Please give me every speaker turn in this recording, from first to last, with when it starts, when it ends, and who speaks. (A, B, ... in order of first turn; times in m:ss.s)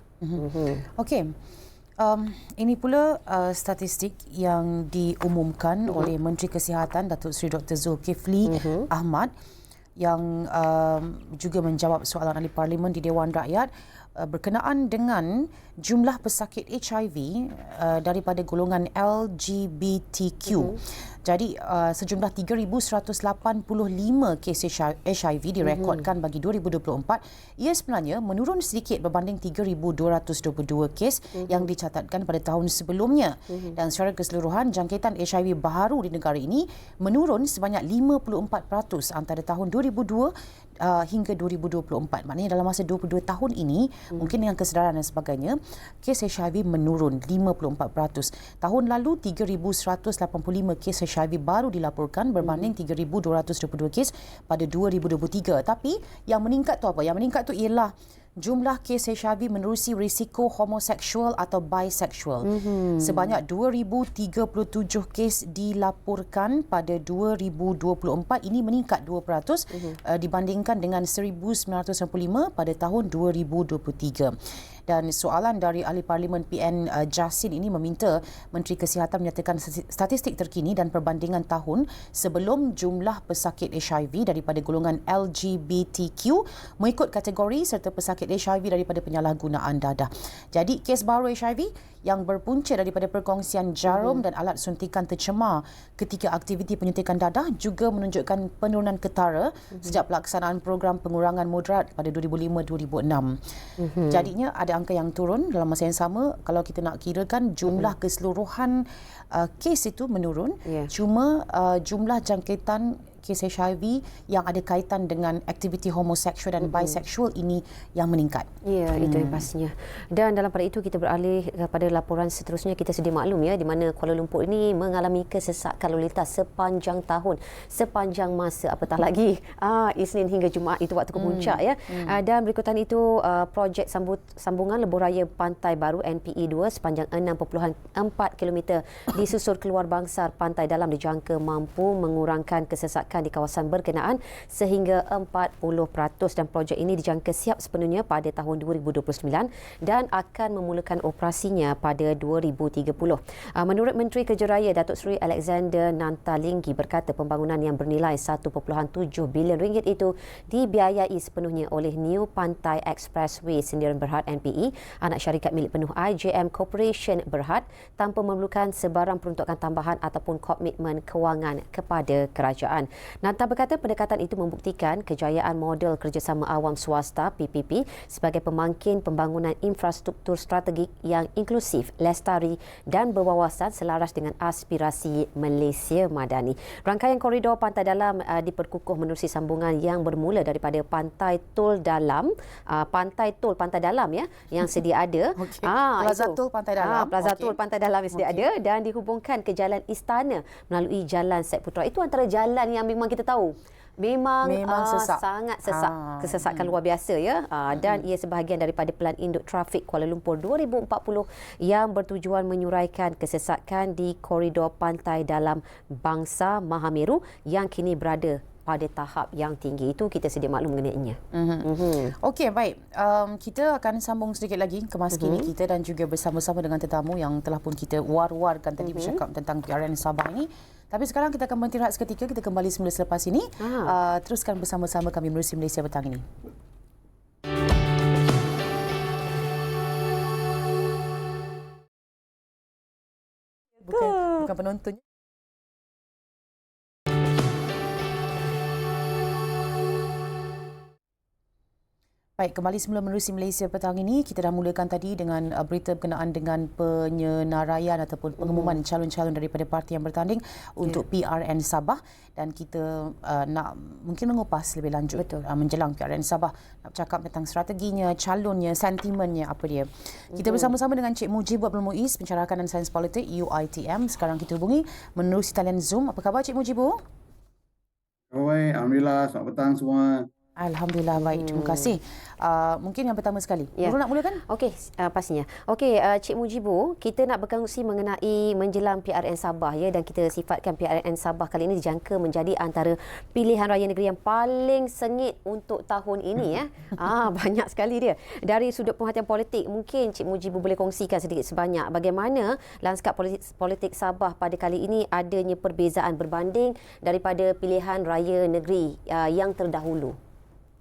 0:00.2-0:01.3 A
0:00.4-0:00.8 B
0:02.0-0:09.3 A
0:08.5-0:08.9 B
0:10.0-1:14.4 A
0:20.5-0:20.8 B
0:25.6-0:26.0 B
0:31.4-0:31.7 B
0:33.5-0:33.8 B
1:02.4-1:03.3 B
1:14.9-1:43.4 A
1:33.9-1:34.2 B
1:43.8-1:44.3 B
1:44.1-1:59.5 A
1:50.7-1:50.9 B
1:56.6-1:56.9 B
1:58.6-3:42.1 B
2:11.2-2:12.2 A
3:15.4-3:17.6 A
3:18.1-3:18.4 A
3:24.4-3:26.7 A
3:41.3-3:56.3 A
3:45.1-3:45.5 B
3:48.8-3:49.2 B
3:53.6-3:53.9 B
4:03.8-4:05.0 A
4:04.0-4:04.4 B
4:12.4-4:37.0 A
4:18.5-4:18.7 B
4:30.4-4:30.7 B
4:38.3-4:40.3 C
4:40.6-4:44.4 A
4:41.2-4:41.9 B
4:43.8-5:10.2 B